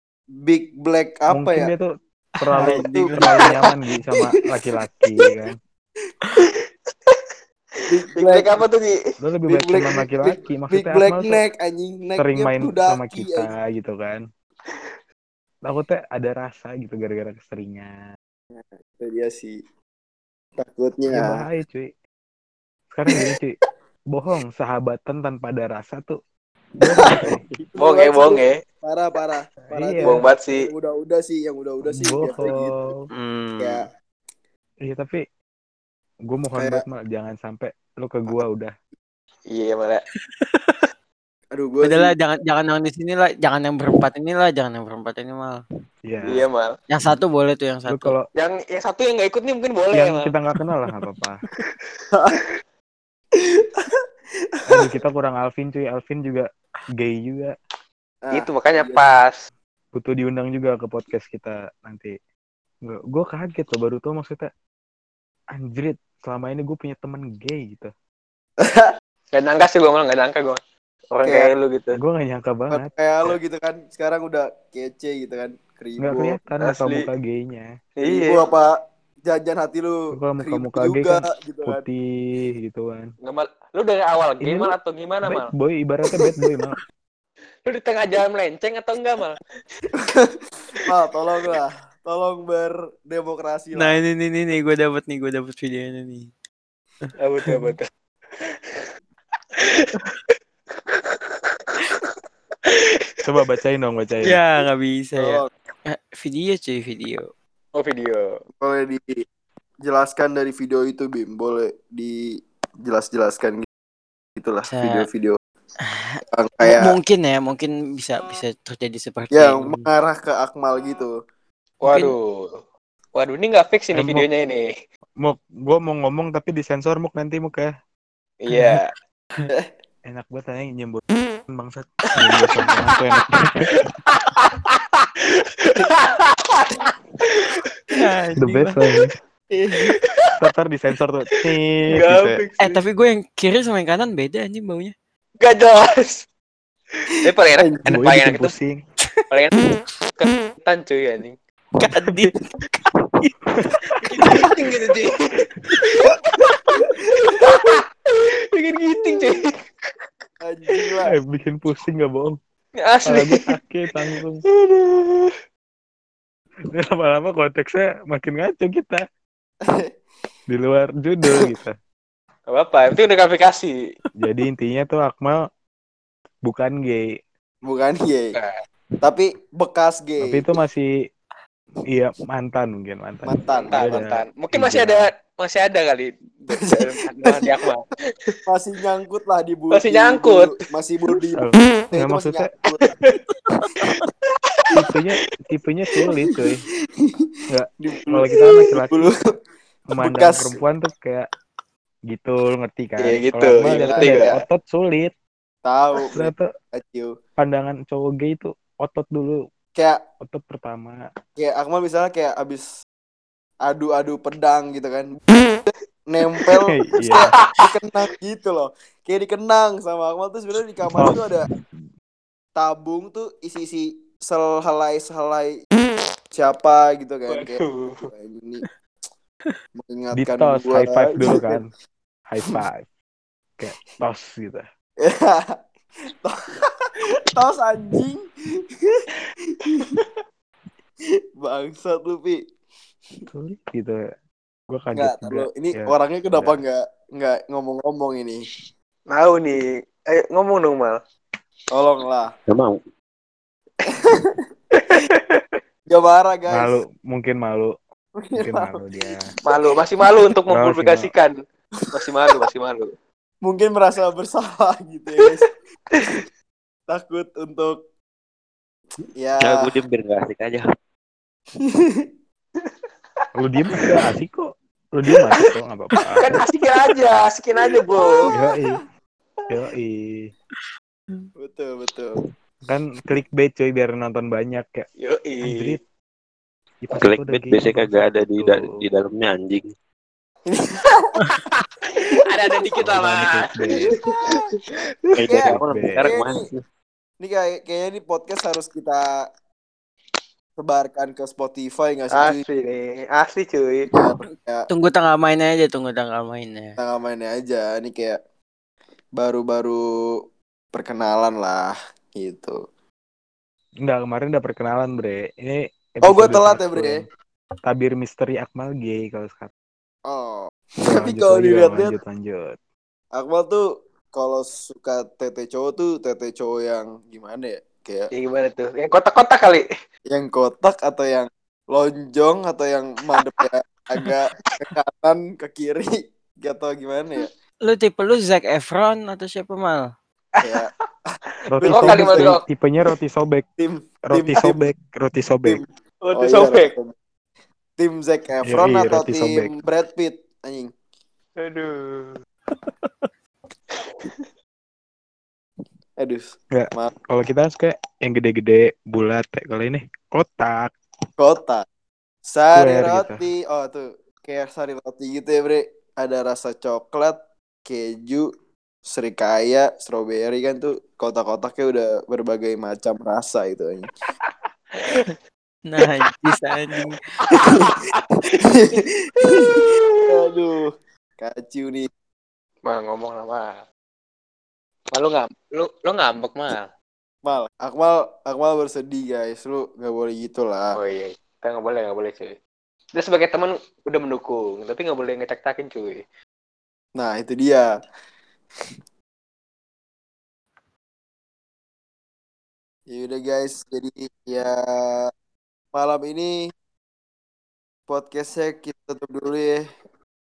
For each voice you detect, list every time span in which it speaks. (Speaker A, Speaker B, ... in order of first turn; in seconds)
Speaker A: 0.4-1.7, 2.6-3.6, 7.9-8.6, 9.5-13.5, 18.5-19.6, 20.6-21.4, 26.9-32.8, 33.6-33.9, 36.6-36.8, 41.5-42.1, 58.2-59.1, 68.6-68.9, 71.2-71.5, 72.7-76.4, 78.0-78.7, 79.2-81.8, 90.0-94.0, 105.2-105.5, 108.6-109.2, 109.8-113.7, 114.4-115.4, 116.3-117.0, 119.3-121.1, 139.5-139.9, 160.4-161.1, 177.6-178.4, 179.0-180.6, 183.2-184.1, 186.5-187.5, 188.4-192.9, 197.0-197.3, 197.8-199.2, 199.9-200.6, 203.6-204.4, 205.6-207.1, 211.4-212.7, 213.6-215.2, 216.1-221.5, 222.6-225.6, 226.3-228.6, 229.8-231.6, 235.0-235.6, 236.2-236.7, 237.3-238.2, 238.8-239.1, 239.7-240.0, 241.4-242.4, 244.9-248.4, 251.7-252.3, 254.1-254.3, 255.9-256.8, 258.2-258.8, 263.4-265.5, 266.9-267.8, 269.1-269.6, 271.6-272.1, 277.9-278.3, 281.4-282.2, 290.5-290.9, 294.0-294.4, 295.2-296.4, 297.2-299.2, 300.6-302.4, 303.9-304.6, 306.8-308.2, 309.2-309.8, 310.7-312.6, 316.0-317.0, 320.1-322.0, 323.1-328.1, 330.1-337.3, 340.4-340.7, 341.6-342.3, 343.6-344.6, 345.4-346.9, 347.8-350.7, 356.0-356.9, 361.2-361.6, 362.3-368.3, 368.9-373.9, 378.5-381.9, 387.2-390.8, 397.0-397.7, 402.9-405.1, 405.7-406.5, 407.9-409.7
Speaker B: 1.3-5.5, 9.2-11.4, 12.2-14.2, 15.6-17.9, 21.1-21.9, 22.9-23.6, 24.1-26.2, 26.8-27.4, 29.7-30.2, 31.9-33.0, 34.9-35.2, 36.3-38.7, 46.1-46.4, 47.9-48.2, 49.9-51.4, 54.7-56.5, 57.0-57.5, 59.9-62.1, 62.9-64.5, 65.5-67.9, 72.0-72.9, 76.0-77.7, 80.1-82.0, 82.6-83.1, 84.4-84.7, 85.2-86.8, 103.2-104.4, 123.9-124.2, 125.2-127.7, 130.1-133.8, 138.4-139.1, 140.4-142.4, 147.9-148.8, 153.6-154.3, 161.2-162.4, 163.1-164.4, 166.7-169.0, 170.5-171.8, 174.2-175.4, 176.4-177.1, 180.2-180.9, 181.9-185.1, 191.4-192.5, 194.8-196.6, 197.5-199.1, 199.9-201.2, 202.1-205.1, 206.0-206.5, 207.4-209.4, 210.2-211.0, 216.7-217.3, 221.0-221.2, 230.2-231.7, 232.3-232.9, 233.6-234.6, 243.3-244.0, 244.7-246.6, 256.5-257.7, 258.4-259.2, 260.5-261.1, 273.4-274.5, 275.0-276.4, 278.3-278.8, 279.5-280.3, 282.7-284.9, 285.4-285.8, 286.8-288.6, 292.8-294.0, 295.4-296.1, 313.9-317.1, 317.7-319.5, 320.9-322.6, 341.5-343.4, 344.1-345.6, 348.5-349.5, 356.5-360.7, 362.5-363.2
Speaker C: 2.4-3.7, 33.1-33.9, 40.2-40.6, 41.8-45.6, 46.9-48.2, 93.7-96.3, 97.4-97.8, 104.2-107.3, 114.6-115.1, 115.9-119.9, 121.9-122.2, 128.5-128.8, 137.9-138.9, 142.6-144.9, 149.1-149.6, 151.9-152.3, 304.7-306.8, 337.6-339.9, 375.6-377.0
Speaker D: 8.1-9.0, 27.8-28.6, 30.0-30.6, 39.5-40.0, 46.2-46.7, 48.4-50.3, 58.3-59.4, 69.3-70.6, 71.1-72.0, 76.6-77.1, 78.0-78.4, 83.2-85.5, 87.7-89.4, 97.2-97.9, 99.6-99.8, 100.9-102.0, 107.7-108.4, 121.8-122.6, 123.1-124.7, 128.4-128.9, 132.4-132.7, 134.1-135.0, 135.6-137.5, 141.9-142.8, 145.4-146.2, 147.0-148.5, 149.3-152.3, 154.1-157.8, 158.6-159.5, 162.8-163.5, 164.5-165.3, 172.5-173.8, 183.7-188.3, 189.7-190.5, 192.8-193.2, 203.0-204.4, 227.3-228.1, 249.1-251.0, 254.8-255.4, 259.4-261.4, 261.9-262.9, 276.1-278.2, 285.0-285.8, 291.4-294.6, 302.1-303.9, 328.1-329.6, 340.4-340.7, 341.6-342.4, 346.0-346.7, 351.4-352.9, 353.8-354.3, 376.7-378.8, 379.4-380.0, 382.6-383.6, 384.9-386.7, 390.7-392.4, 392.9-396.0
Speaker E: 252.5-252.8, 269.4-270.7, 287.0-289.7, 295.1-296.6